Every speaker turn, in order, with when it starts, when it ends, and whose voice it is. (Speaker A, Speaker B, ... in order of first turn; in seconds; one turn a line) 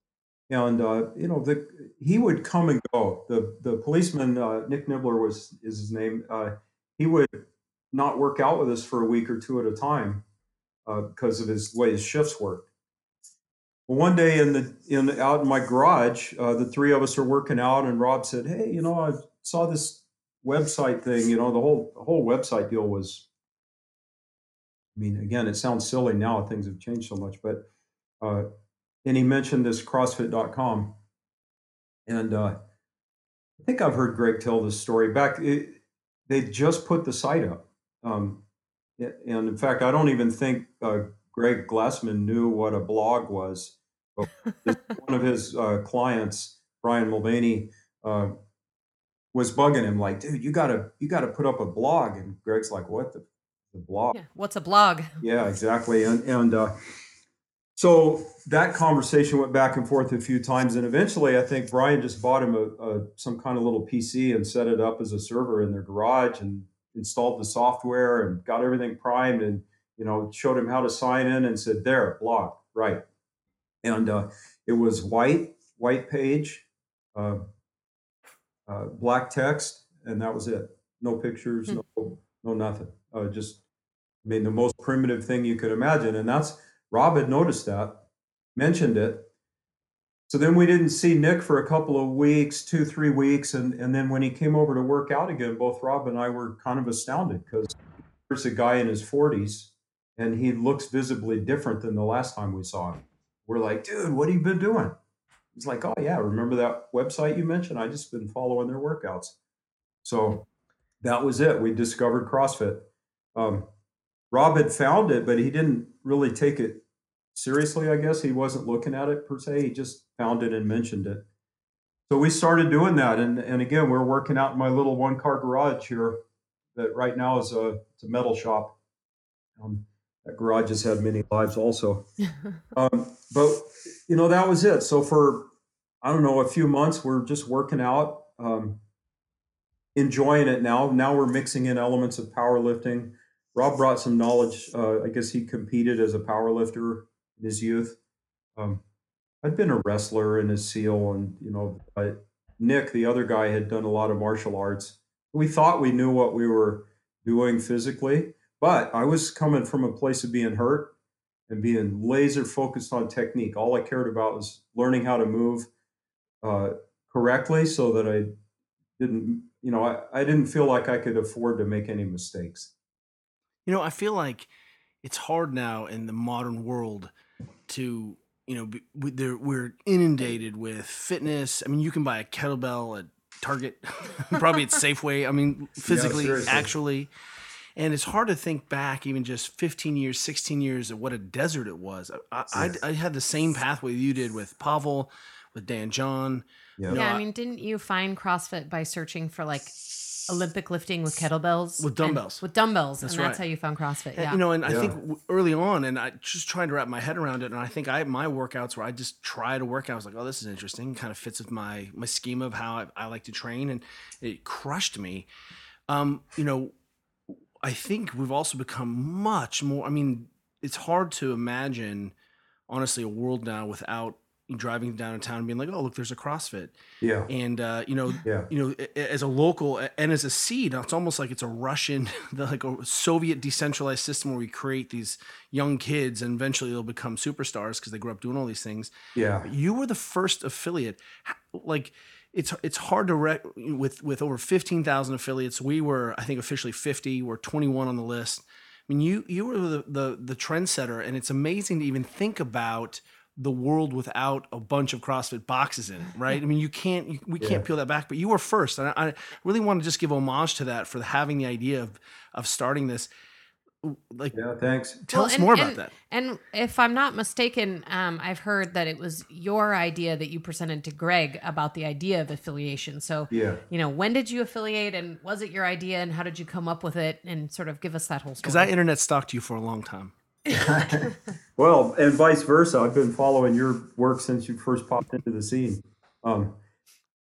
Speaker A: 0.5-10.2
Speaker A: 10.8-12.7
Speaker A: 13.9-23.3
Speaker A: 24.9-27.6
Speaker A: 28.2-28.5
Speaker A: 29.0-30.9
Speaker A: 32.0-32.5
Speaker A: 33.6-38.4
Speaker A: 39.0-48.3
Speaker A: 49.3-54.2
Speaker B: 54.1-55.2
Speaker A: 55.2-56.7
Speaker A: 57.8-73.0
Speaker A: 73.8-77.4
Speaker A: 78.7-83.6
Speaker A: 84.2-88.0
Speaker A: 88.5-89.3
Speaker A: 90.3-97.8
Speaker A: 98.3-105.0
Speaker A: 105.5-109.4
Speaker A: 110.0-110.5
Speaker A: 111.0-113.7
Speaker A: 114.3-121.2
Speaker A: 122.1-126.2
Speaker A: 126.7-128.8
Speaker A: 129.6-132.1
Speaker A: 132.7-135.5
Speaker A: 136.0-138.8
Speaker A: 139.9-148.0
Speaker A: 148.6-148.8
Speaker A: 149.4-160.9
Speaker A: 161.5-165.7
Speaker A: 166.4-168.3
Speaker A: 169.0-172.7
Speaker C: 173.7-174.5
Speaker C: 175.0-177.1
Speaker C: 177.7-187.1
Speaker A: 185.9-186.7
Speaker C: 187.8-197.2
Speaker A: 192.5-192.8
Speaker B: 196.9-204.4
Speaker C: 201.8-202.4
Speaker C: 203.0-203.4
Speaker C: 204.2-215.3
Speaker A: 204.6-205.0
Speaker C: 215.9-216.7
Speaker C: 217.6-222.1
Speaker C: 222.7-226.7
Speaker A: 227.0-227.3
Speaker C: 227.3-238.9
Speaker A: 228.2-228.5
Speaker A: 239.1-239.5
Speaker C: 239.4-263.1
Speaker A: 257.4-257.6
Speaker C: 263.8-264.4
Speaker A: 264.3-265.0
Speaker C: 265.0-265.9
Speaker B: 265.1-278.7
Speaker A: 273.3-273.6
Speaker C: 278.4-280.1
Speaker A: 280.5-286.6